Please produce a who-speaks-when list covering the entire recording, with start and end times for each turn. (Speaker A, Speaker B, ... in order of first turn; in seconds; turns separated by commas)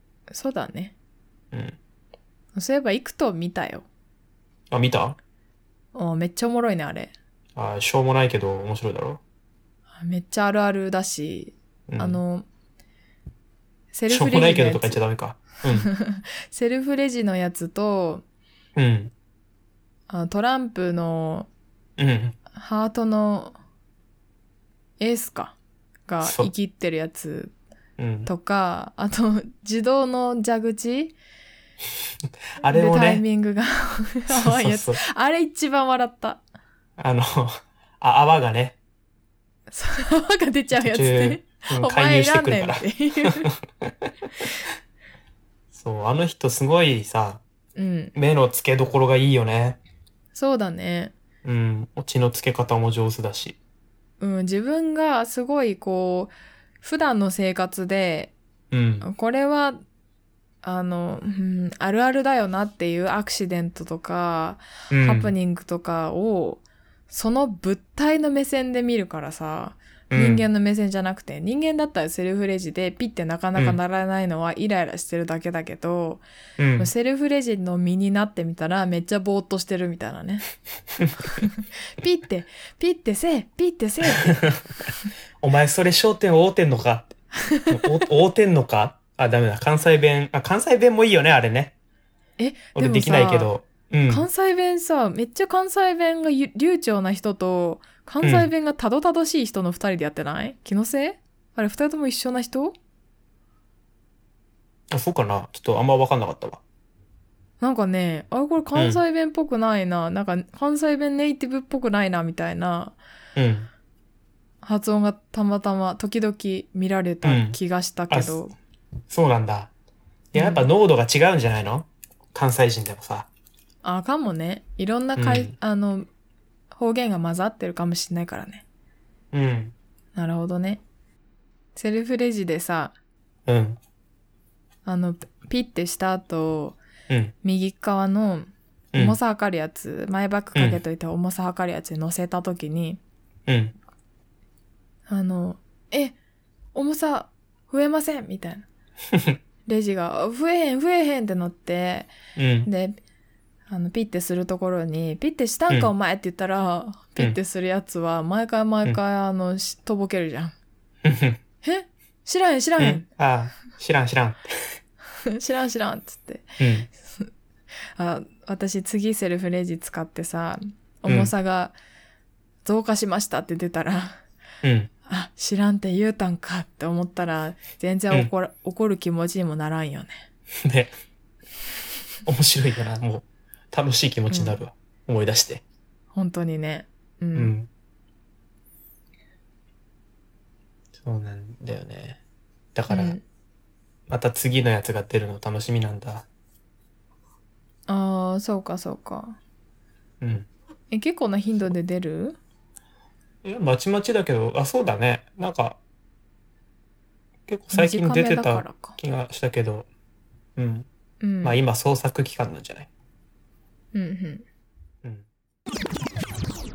Speaker A: 0.3-0.9, Speaker B: 1.5-1.8, Speaker A: 2.5-3.9, Speaker B: 4.7-5.2, Speaker A: 5.9-7.1, Speaker B: 7.6-9.2, Speaker A: 10.0-12.5, Speaker B: 11.9-12.2, Speaker A: 13.9-15.0, Speaker B: 14.1-15.9, Speaker A: 15.7-18.2, Speaker B: 18.8-19.1, Speaker A: 20.1-21.5, Speaker B: 22.0-22.4, Speaker A: 22.5-23.6, Speaker A: 25.0-25.6, Speaker A: 26.1-27.5, Speaker B: 26.2-26.5, Speaker B: 28.0-28.3, Speaker A: 28.3-31.2, Speaker B: 32.6-33.2, Speaker A: 32.6-36.4, Speaker B: 34.3-35.0, Speaker B: 37.0-38.8, Speaker A: 39.7-43.5, Speaker B: 40.7-44.5, Speaker B: 45.7-47.4, Speaker A: 47.8-48.1, Speaker B: 48.1-49.8, Speaker A: 50.3-51.1, Speaker B: 51.4-53.6, Speaker A: 54.2-58.3, Speaker B: 58.7-59.1, Speaker A: 59.0-59.8, Speaker A: 60.6-76.2, Speaker B: 64.9-65.3, Speaker B: 70.1-70.5, Speaker B: 76.6-76.9, Speaker A: 76.8-80.5, Speaker B: 81.1-81.4, Speaker A: 81.3-84.4, Speaker B: 84.3-84.6, Speaker B: 85.4-87.1, Speaker A: 87.4-88.0, Speaker B: 87.7-91.7, Speaker A: 92.4-93.5, Speaker B: 92.8-94.3, Speaker A: 94.1-102.8, Speaker B: 98.2-98.5, Speaker B: 104.9-106.6, Speaker A: 107.6-113.0, Speaker B: 108.8-109.0, Speaker B: 113.4-113.7, Speaker A: 114.6-118.5, Speaker B: 117.2-117.6, Speaker B: 118.1-118.3, Speaker B: 119.1-119.7, Speaker B: 120.3-123.3, Speaker A: 120.4-120.7, Speaker A: 123.8-126.1, Speaker B: 125.2-125.5, Speaker A: 126.7-128.6, Speaker B: 129.3-129.7, Speaker A: 130.2-130.8, Speaker A: 131.8-132.9, Speaker B: 133.5-133.8, Speaker A: 134.9-136.8, Speaker B: 137.1-137.3, Speaker A: 137.4-143.0, Speaker B: 138.9-139.2, Speaker B: 140.6-140.8, Speaker B: 143.5-143.7, Speaker A: 145.1-146.2, Speaker A: 146.8-148.7, Speaker B: 149.1-149.4, Speaker A: 149.7-152.1, Speaker B: 152.4-152.7, Speaker A: 152.7-153.0, Speaker A: 153.7-160.5, Speaker B: 161.0-161.4, Speaker A: 161.6-163.1, Speaker B: 162.8-164.8, Speaker A: 165.3-167.3, Speaker B: 166.6-166.9, Speaker A: 168.0-171.7, Speaker B: 171.1-171.3, Speaker A: 172.7-174.2, Speaker B: 174.6-174.9, Speaker A: 175.1-180.2, Speaker B: 180.6-180.9, Speaker B: 182.3-185.6, Speaker A: 184.3-184.6, Speaker A: 186.1-187.5, Speaker B: 187.3-187.7, Speaker B: 191.0-192.2, Speaker B: 192.8-193.2, Speaker A: 192.9-193.2, Speaker B: 194.1-196.3, Speaker A: 197.9-199.4, Speaker B: 200.2-200.5, Speaker A: 200.9-202.4, Speaker B: 203.4-205.8, Speaker B: 207.5-209.9, Speaker A: 207.7-209.0, Speaker B: 210.6-210.9, Speaker A: 211.2-211.6, Speaker B: 211.4-212.9, Speaker A: 213.9-214.4